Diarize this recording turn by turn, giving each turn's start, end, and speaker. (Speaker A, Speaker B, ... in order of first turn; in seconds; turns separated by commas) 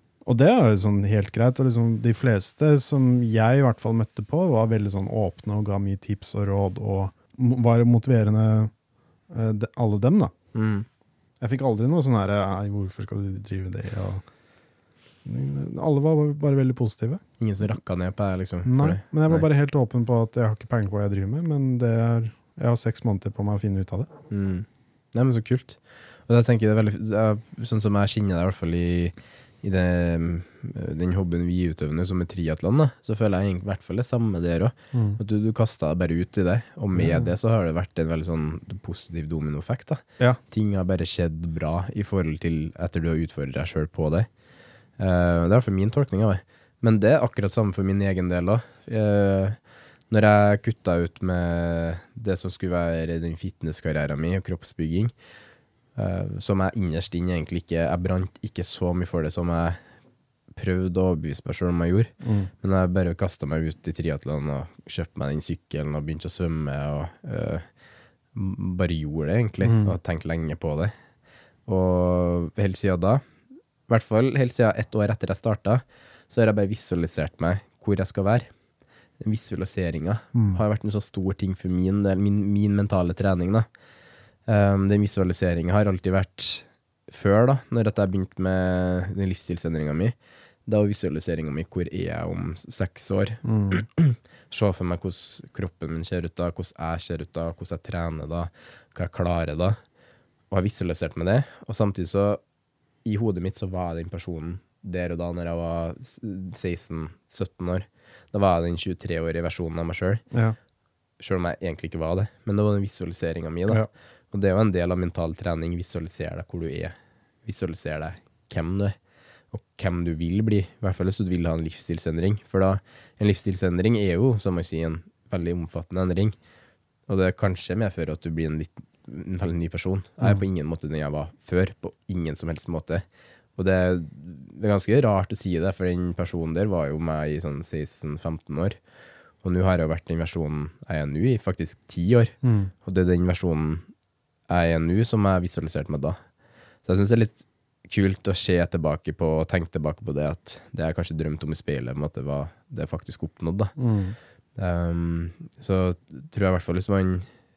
Speaker A: 0.2-8.7, Speaker A: 9.3-10.3, Speaker B: 10.5-10.8, Speaker A: 11.4-14.2, Speaker A: 15.2-17.2, Speaker B: 17.4-19.4, Speaker A: 18.6-24.1, Speaker B: 24.3-44.3, Speaker A: 34.9-35.2, Speaker A: 36.9-37.3, Speaker B: 45.0-49.6, Speaker B: 50.1-55.1, Speaker B: 56.0-59.8, Speaker B: 60.5-67.6, Speaker A: 62.2-62.5, Speaker B: 68.3-70.9, Speaker A: 69.6-70.0, Speaker B: 71.7-73.2, Speaker B: 73.9-78.5, Speaker B: 79.2-83.7, Speaker A: 80.3-80.6, Speaker B: 84.5-90.1, Speaker B: 90.7-99.8, Speaker A: 93.4-93.8, Speaker B: 100.5-102.4, Speaker B: 103.0-110.2, Speaker A: 110.3-110.6, Speaker B: 111.2-116.9, Speaker B: 117.4-118.9, Speaker B: 119.5-126.4, Speaker B: 127.1-133.0, Speaker B: 133.6-138.8, Speaker B: 139.4-143.8, Speaker A: 142.4-142.7, Speaker B: 144.5-146.2, Speaker B: 146.8-153.7, Speaker A: 153.8-154.2, Speaker B: 154.6-157.3